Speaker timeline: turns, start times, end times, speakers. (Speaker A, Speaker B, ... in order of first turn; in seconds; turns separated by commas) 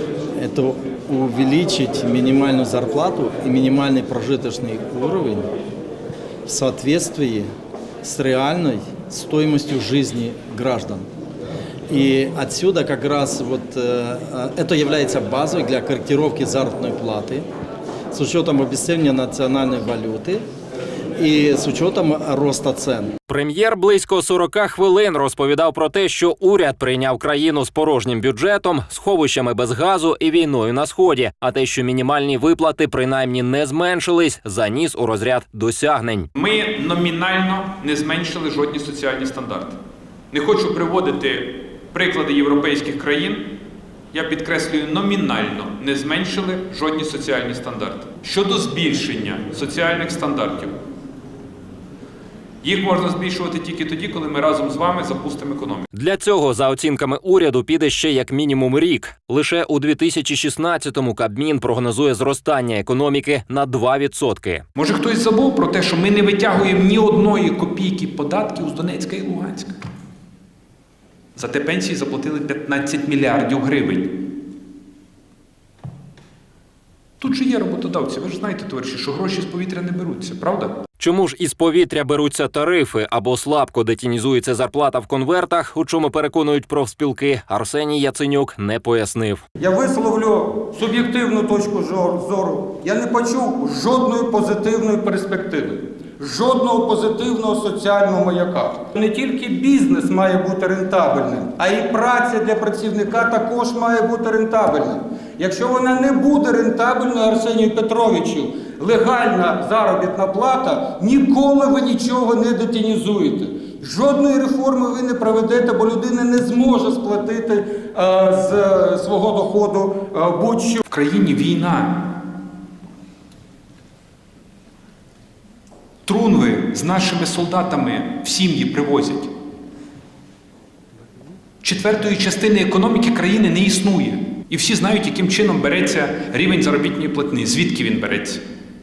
Speaker A: 0.4-5.5, Speaker A: 6.5-7.5, Speaker A: 8.0-11.1, Speaker A: 11.9-17.4, Speaker A: 18.1-20.4, Speaker A: 21.2-23.1, Speaker B: 23.3-36.3, Speaker C: 36.4-39.8, Speaker C: 40.3-43.5, Speaker C: 44.1-50.8, Speaker C: 52.6-55.9, Speaker B: 55.9-64.7, Speaker C: 64.8-69.8, Speaker C: 71.4-74.2, Speaker C: 77.2-80.7, Speaker B: 81.0-89.4, Speaker D: 89.6-120.8, Speaker C: 120.9-122.0, Speaker C: 126.1-129.3, Speaker C: 131.6-138.4